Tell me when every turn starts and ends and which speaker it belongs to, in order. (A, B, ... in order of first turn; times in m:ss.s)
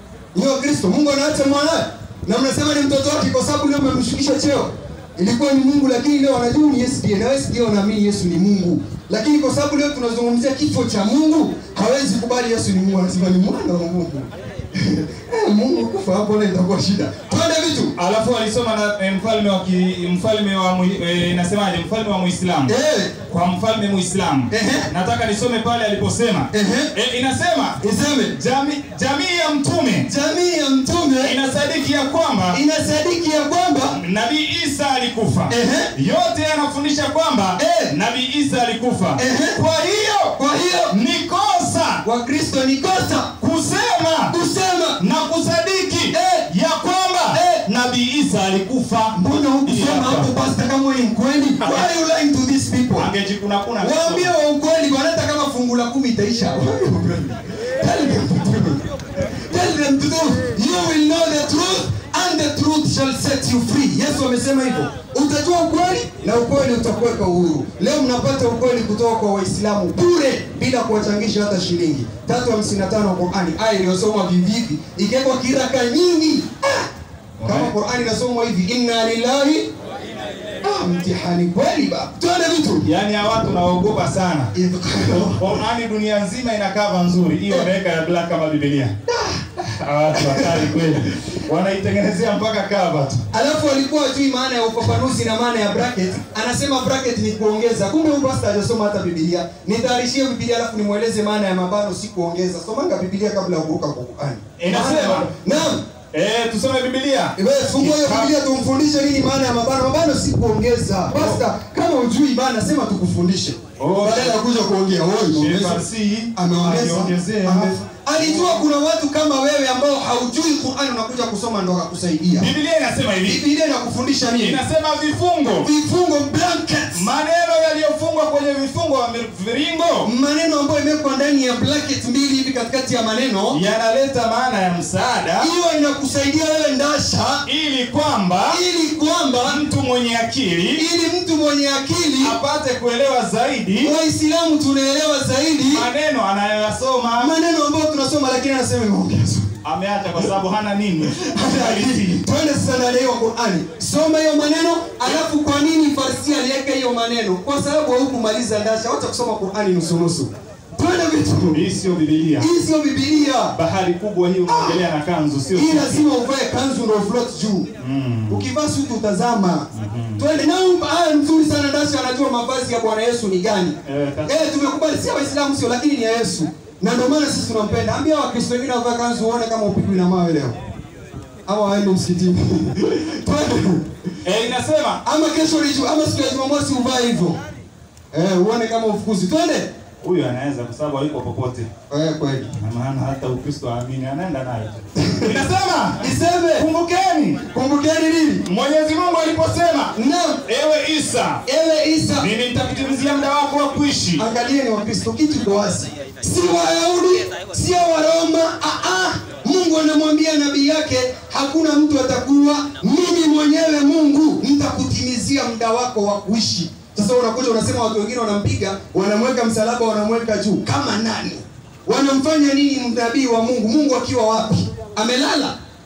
0:00.3-0:17.9 A
0:18.0-0:22.7 B
0:22.7-0:23.1 A
0:23.3-0:27.8 B
0:24.5-0:24.9 A
0:26.5-0:26.9 A
0:27.8-0:28.3 A
0:28.3-0:30.1 B
0:30.1-0:31.4 A
0:31.2-0:32.6 B
0:32.5-0:34.0 A
0:33.9-0:40.3 B
0:35.5-0:35.9 A
0:37.6-0:37.9 A
0:39.2-0:39.6 A
0:40.4-0:40.9 A
0:40.9-0:42.0 B
0:42.0-0:43.3 A
0:43.4-0:44.3 B
0:44.3-0:45.0 A
0:45.0-0:50.3 B
0:46.1-0:46.5 A
0:47.3-0:47.6 A
0:49.1-0:53.1 A
0:53.0-0:54.3 B
0:53.8-1:16.9 A
1:17.4-1:17.7 B
1:17.4-1:19.7 A
1:20.6-1:22.9 A
1:22.8-1:24.5 B
1:24.5-1:25.6 A
1:25.0-1:28.9 B
1:29.1-1:31.0 A
1:29.6-1:33.2 B
1:33.3-1:45.8 A
1:44.6-1:45.3 B
1:46.1-1:48.3 B
1:47.4-1:55.8 A
1:51.1-1:51.4 B
1:53.8-1:54.4 B
1:55.2-1:58.6 B
1:56.3-2:02.5 A
2:02.4-2:03.4 B
2:03.2-2:04.6 A
2:04.4-2:05.7 B
2:05.6-2:07.1 A
2:06.9-2:10.1 B
2:10.0-2:13.6 A
2:13.5-2:15.5 B
2:15.4-2:17.4 A
2:17.4-2:18.6 B
2:18.5-2:19.6 A
2:19.4-2:20.8 B
2:20.7-2:22.4 A
2:22.2-2:23.9 B
2:23.8-2:25.9 A
2:25.7-2:27.3 B
2:27.2-2:29.5 A
2:29.6-2:32.2 B
2:31.1-2:41.6 A
2:41.5-2:42.5 B
2:42.4-2:43.5 A
2:43.5-2:46.0 B
2:44.5-2:44.8 A
2:45.5-2:47.7 A
2:47.8-2:48.4 B
2:48.3-3:00.6 A
2:49.7-2:50.2 B
2:53.8-2:54.5 B
3:01.4-3:03.9 A
3:04.2-3:05.0 B
3:05.0-3:07.4 A
3:08.1-3:09.7 A
3:10.0-3:11.7 B
3:11.9-3:12.5 A
3:12.6-3:17.4 B
3:15.0-3:15.4 A
3:16.0-3:16.7 A
3:17.4-3:18.4 A
3:18.4-3:19.9 B
3:19.9-3:20.4 A
3:20.4-3:21.4 B
3:21.4-3:22.3 A
3:22.2-3:24.2 B
3:24.2-3:45.6 A